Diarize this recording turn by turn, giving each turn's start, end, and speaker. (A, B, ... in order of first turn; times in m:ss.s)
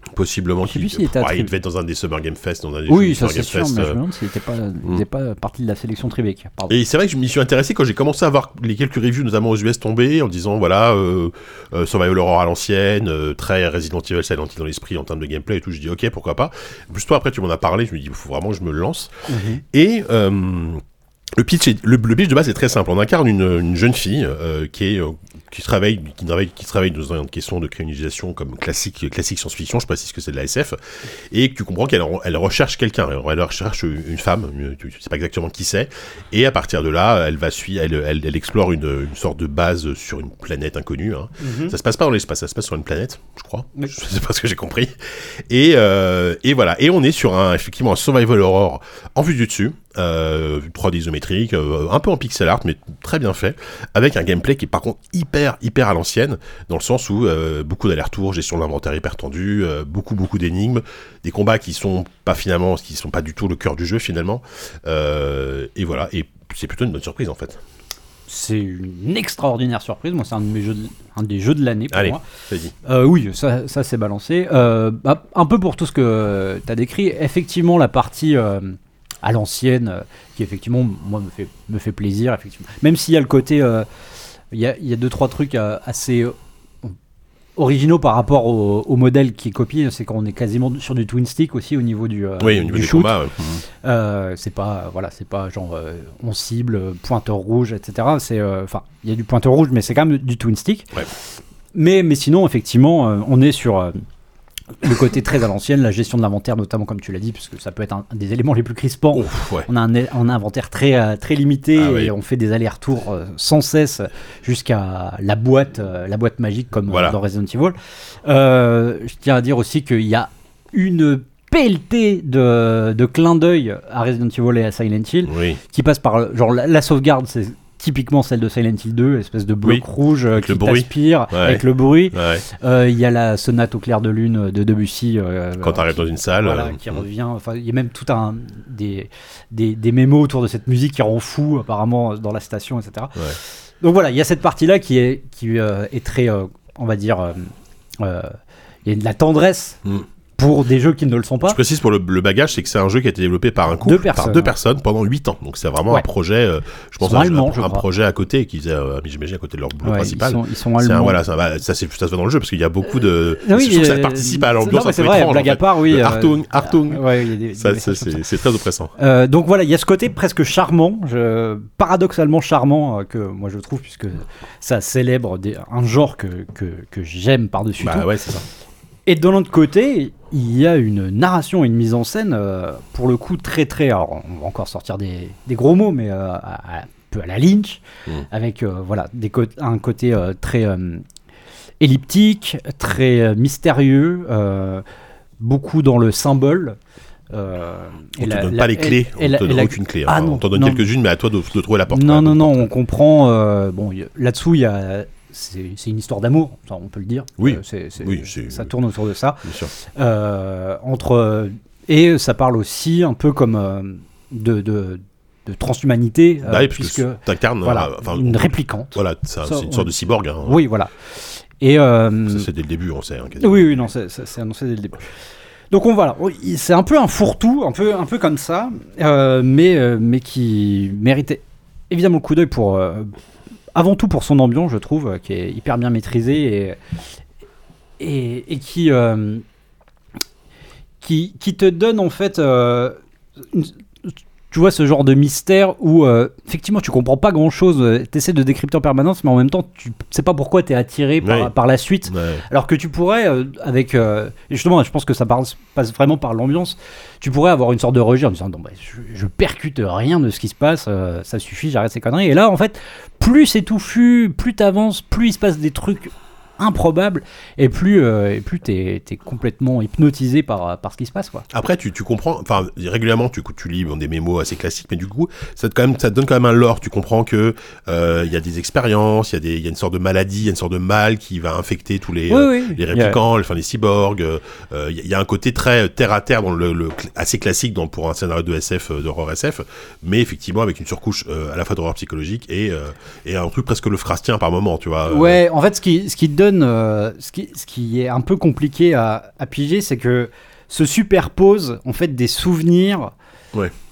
0:00.2-0:04.0 A
0:00.6-0:01.5 B
0:02.9-0:06.7 B
0:06.7-0:19.1 A
0:19.3-0:19.6 B
0:19.7-0:20.8 A
0:21.4-0:30.8 A
0:31.3-0:44.9 A
0:41.4-0:41.8 B
0:45.5-1:07.6 A
1:08.3-1:12.2 B
1:11.9-1:12.7 A
1:12.8-1:23.9 B
1:24.5-1:27.0 B
1:27.6-1:41.0 B
1:32.4-1:33.4 A
1:41.7-1:44.0 B
1:44.8-2:29.8 B
1:49.1-1:49.7 A
1:51.8-1:52.1 A
1:56.9-1:57.2 A
2:05.3-2:05.6 A
2:09.6-2:12.4 A
2:15.6-2:17.0 A
2:30.4-2:31.6 B
2:31.4-2:48.9 A
2:33.8-2:34.5 B
2:37.0-2:37.8 B
2:39.8-2:41.2 B
2:43.3-2:48.3 B
2:49.0-2:58.1 B
2:57.8-2:58.4 A
2:59.1-3:11.0 B
3:11.8-3:14.8 B
3:15.4-3:16.8 B
3:17.3-3:20.9 B
3:18.2-3:22.7 A
3:21.9-3:39.9 B
3:27.4-3:28.7 A
3:29.4-3:29.7 A
3:36.5-3:40.6 A
3:40.4-3:40.9 B
3:41.6-3:42.5 B
3:42.3-3:43.8 A
3:43.4-3:45.0 B
3:45.7-3:53.1 B
3:53.8-3:56.8 B
3:58.0-3:59.4 B
4:01.0-4:03.0 B
4:03.5-4:31.5 B
4:11.2-4:11.5 A
4:12.1-4:12.4 A
4:31.5-4:55.4 A
4:42.3-4:43.2 B
4:55.1-5:03.1 B